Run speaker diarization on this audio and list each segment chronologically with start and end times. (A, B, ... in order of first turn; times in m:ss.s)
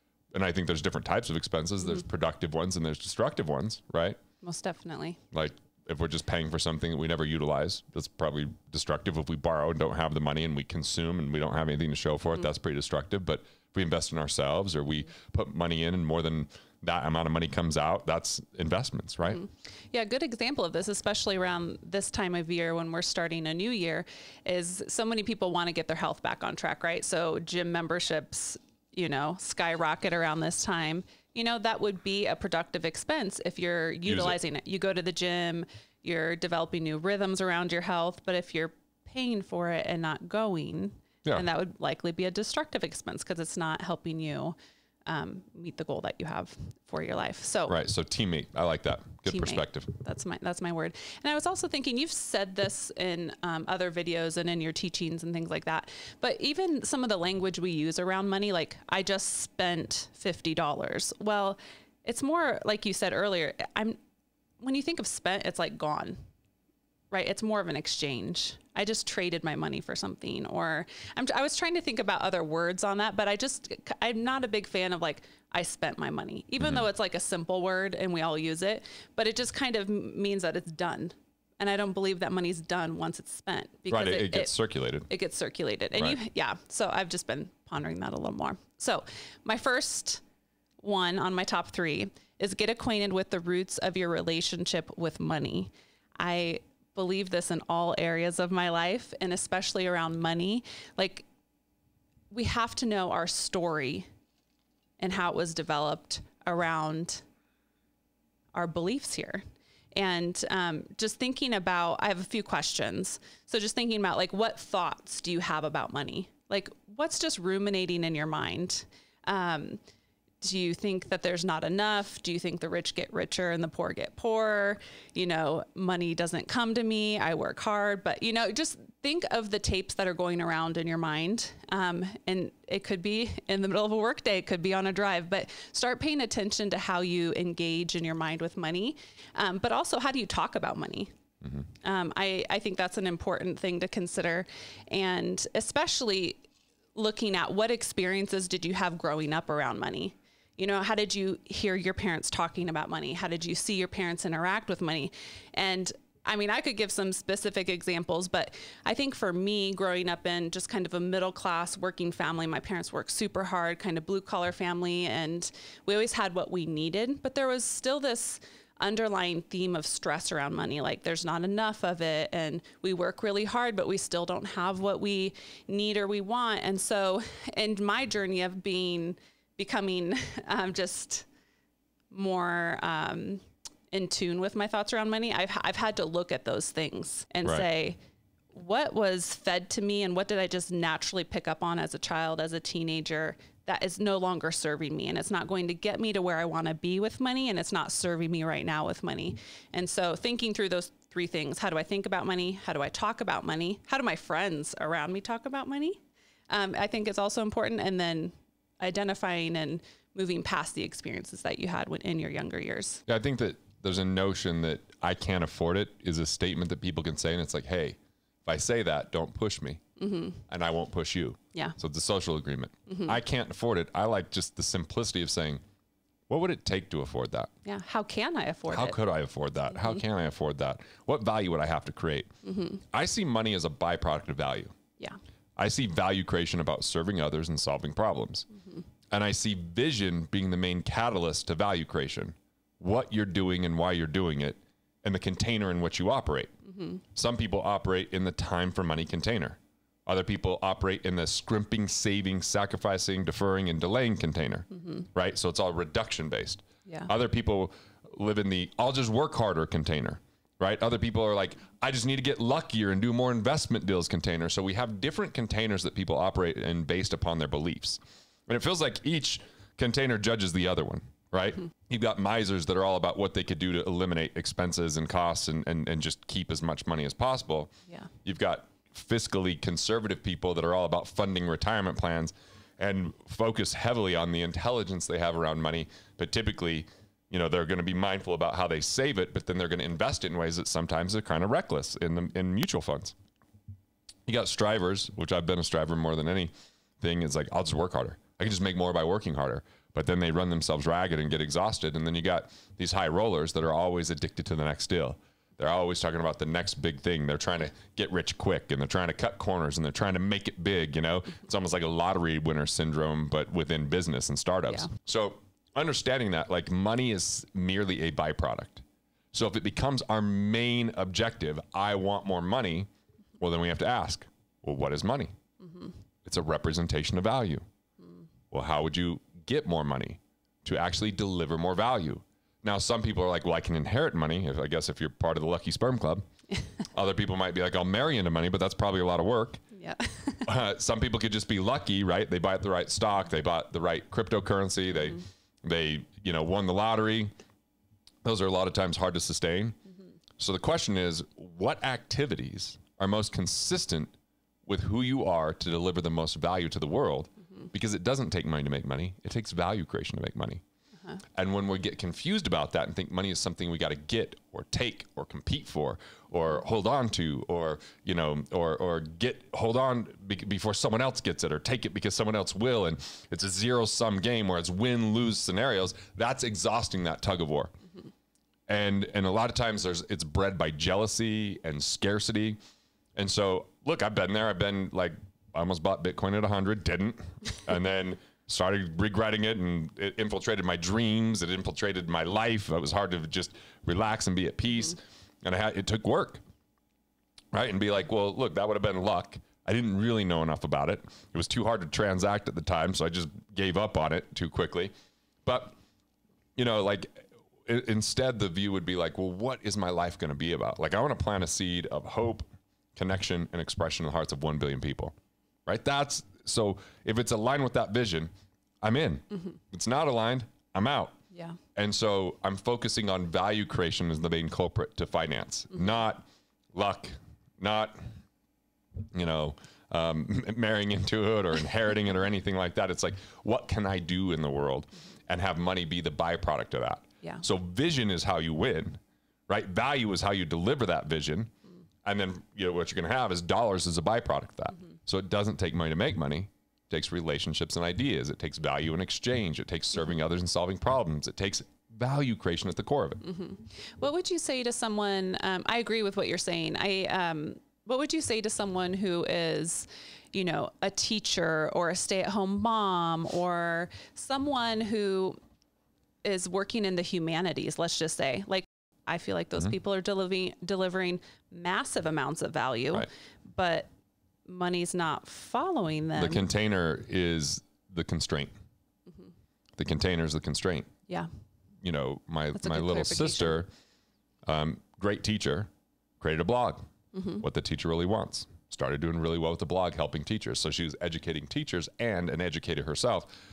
0:00.3-0:04.2 A
0:04.4-0:05.2 B
0:05.3-0:19.4 A
0:19.3-0:47.7 B
0:34.0-0:34.4 A
0:47.7-0:49.9 A
0:49.3-1:04.0 B
1:04.6-1:06.2 B
1:07.1-1:24.5 B
1:23.9-1:25.1 A
1:25.1-1:30.2 B
1:30.8-1:41.2 B
1:42.3-1:44.1 B
1:45.0-1:47.2 B
1:48.5-1:49.4 B
1:49.9-1:59.8 B
2:00.4-2:21.1 B
2:21.8-2:26.4 B
2:26.9-3:01.3 B
3:02.1-3:03.4 B
3:03.9-3:08.0 B
3:08.5-3:26.0 B
3:26.5-3:33.0 B
3:33.1-3:39.8 A
3:40.0-3:40.4 B
3:40.5-3:45.6 A
3:46.3-3:47.5 A
3:47.6-3:49.0 B
3:48.7-3:52.3 A
3:49.7-3:50.0 B
3:52.4-3:52.8 B
3:52.9-3:54.7 A
3:55.6-3:58.5 A
3:59.1-4:06.5 A
4:06.7-4:07.0 B
4:07.1-4:37.7 A
4:38.2-4:53.1 A
4:54.3-5:22.9 A
5:23.4-5:25.3 A
5:26.2-5:27.6 A
5:28.5-5:36.2 A
5:36.9-5:39.6 A
5:39.7-5:40.5 B
5:40.4-5:47.3 A
5:48.2-5:49.8 A
5:50.4-5:54.1 A
5:54.6-6:00.6 A
6:01.3-6:17.7 A
6:18.7-6:22.6 A
6:23.2-6:36.4 A
6:37.5-6:44.9 A
6:45.4-6:45.8 A
6:46.6-6:55.1 A
6:55.6-6:58.3 A
6:58.8-7:01.2 A
7:01.7-7:08.0 A
7:09.1-7:21.5 A
7:22.0-7:33.2 A
7:33.2-7:45.4 B
7:46.2-7:53.9 B
7:54.4-7:56.4 B
7:56.2-7:58.5 A
7:59.8-8:00.9 A
8:01.8-8:03.7 A
8:02.5-8:03.6 B
8:04.4-8:06.8 A
8:07.1-8:07.4 B
8:07.4-8:13.4 A